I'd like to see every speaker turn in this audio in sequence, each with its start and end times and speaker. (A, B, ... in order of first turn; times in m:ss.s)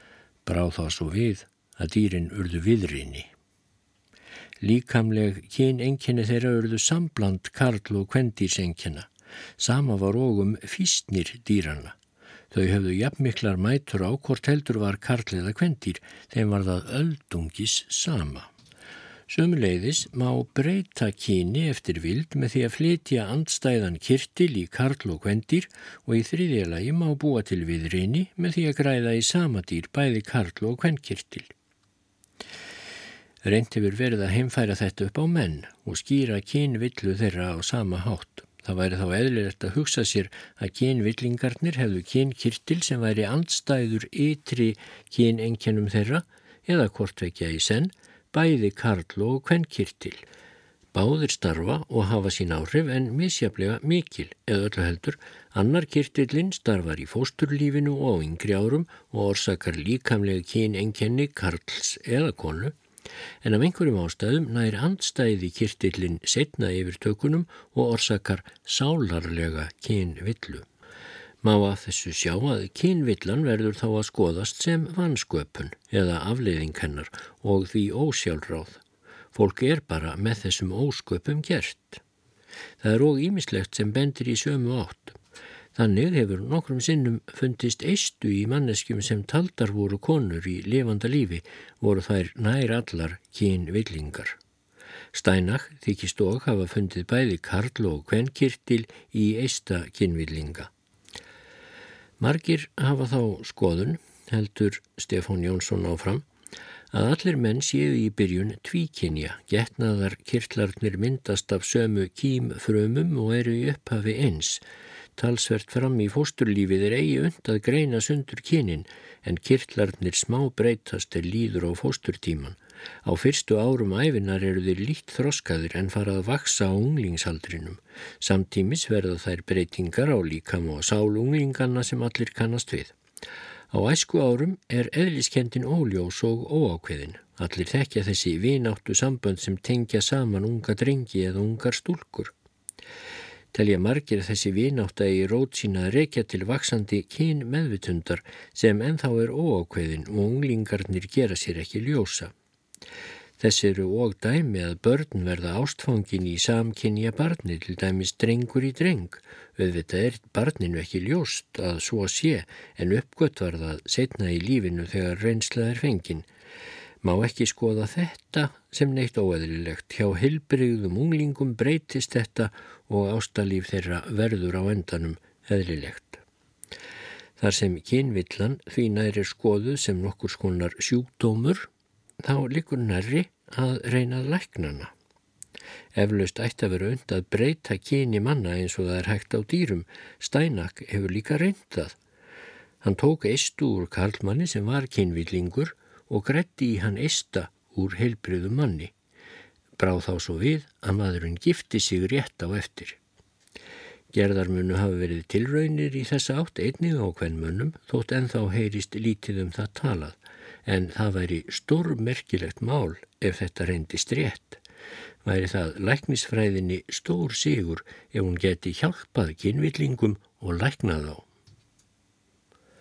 0:00.4-0:03.3 A
0:04.6-0:12.0 A
0:12.5-0:18.5 A
0:19.3-0:31.5 A
0:33.4-0:50.2 A
0:50.9-1:02.7 A
1:03.4-1:10.6 A
1:11.4-1:18.8 A
1:19.3-1:22.0 A
1:22.8-1:25.2 A
1:25.7-1:34.4 A
1:35.1-1:40.7 A
1:42.2-1:46.2 A
1:46.9-1:54.6 A
1:55.2-2:12.9 A
2:13.7-2:22.3 A
2:23.5-2:32.3 A
2:33.4-2:46.3 A
2:47.0-2:56.2 A
2:57.4-3:01.7 A
3:02.2-3:04.9 A
3:05.9-3:12.0 A
3:12.8-3:18.9 A
3:19.8-3:23.0 A
3:24.1-3:34.6 A
3:35.2-3:41.3 A